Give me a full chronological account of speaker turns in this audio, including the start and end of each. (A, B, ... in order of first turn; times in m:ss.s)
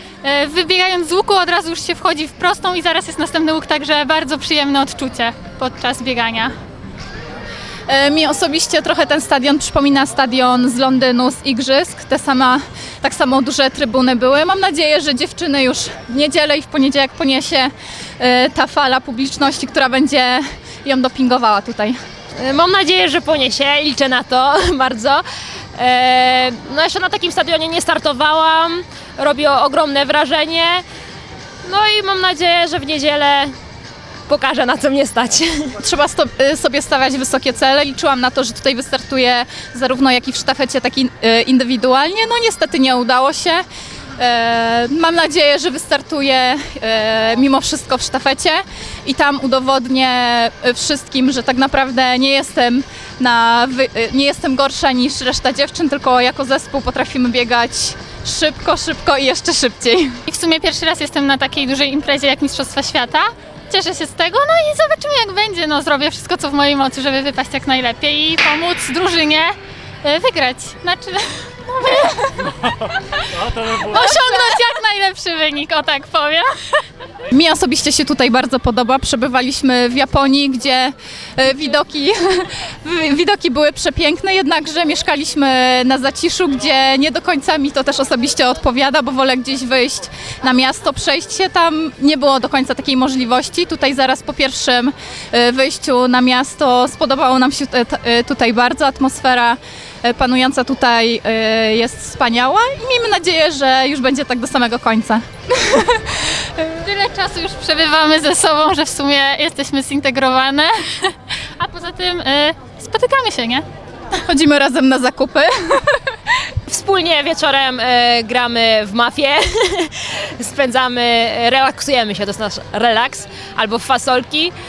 0:00.2-0:06.5 A
0:07.9-0:22.0 B
0:22.4-0:25.2 C
0:25.8-0:30.8 C
0:31.6-0:33.5 C
0:34.3-0:35.8 C
0:35.8-0:43.6 B
0:44.2-1:00.2 B
1:00.2-1:11.4 A
1:11.8-1:12.5 B
1:13.6-1:16.5 A
1:13.9-1:14.4 B
1:17.3-1:46.1 B
1:46.6-1:53.6 A
1:54.2-1:56.2 B
1:56.7-2:04.5 C